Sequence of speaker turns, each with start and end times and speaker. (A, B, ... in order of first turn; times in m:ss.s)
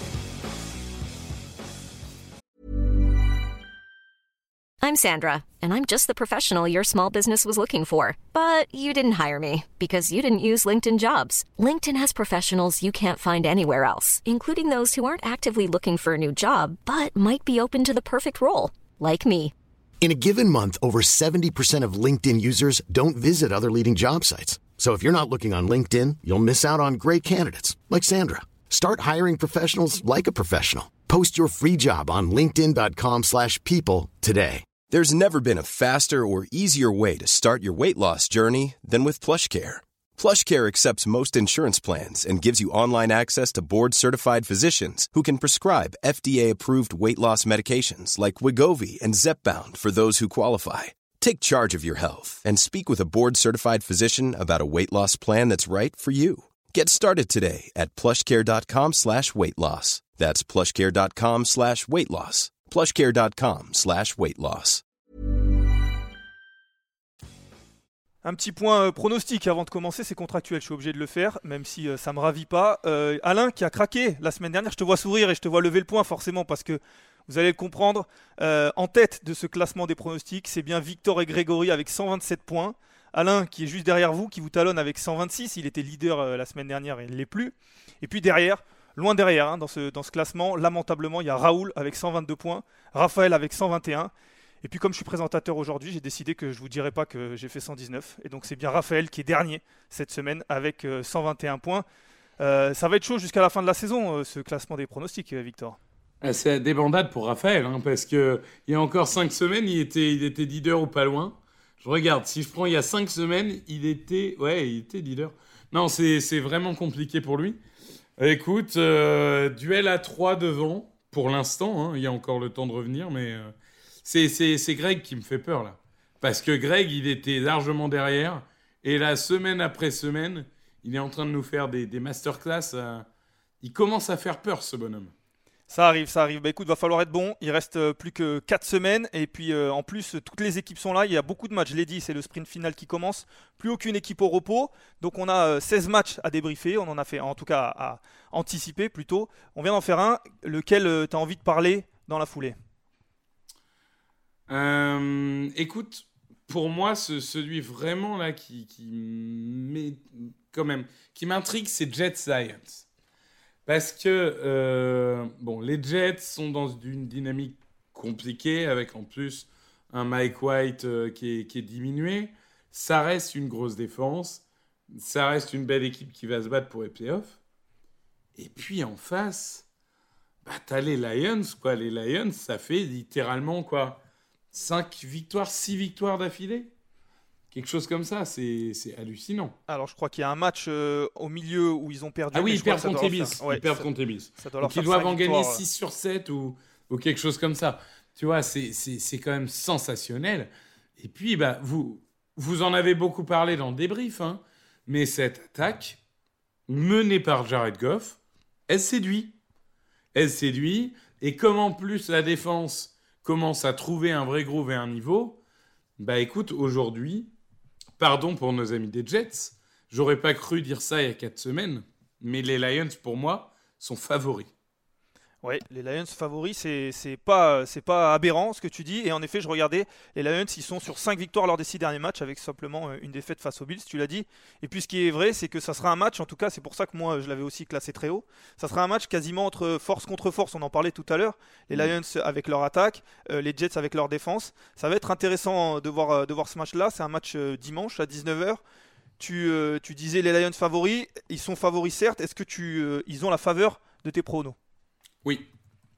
0:04.8-0:19.5 A
0:20.0-0:34.7 B
0:34.9-1:04.8 C
1:08.2-1:34.1 D
1:34.6-1:41.8 D
1:42.4-1:45.8 D
1:46.2-1:57.6 E
1:58.2-2:03.5 E
2:04.0-2:13.1 E
2:13.6-2:15.1 E
2:15.7-2:32.6 D
2:34.5-2:42.9 E
2:43.7-2:57.4 E
2:58.4-2:59.7 E
3:00.4-3:04.0 E
3:04.5-3:06.7 E
3:07.5-3:09.6 E
3:09.7-3:13.9 D
3:12.3-3:26.0 E
3:14.4-3:15.6 D
3:26.7-3:29.4 E
3:30.1-3:35.4 E
3:36.0-3:37.3 E
3:38.0-3:44.5 E
3:45.4-4:08.6 D
4:09.2-4:14.6 D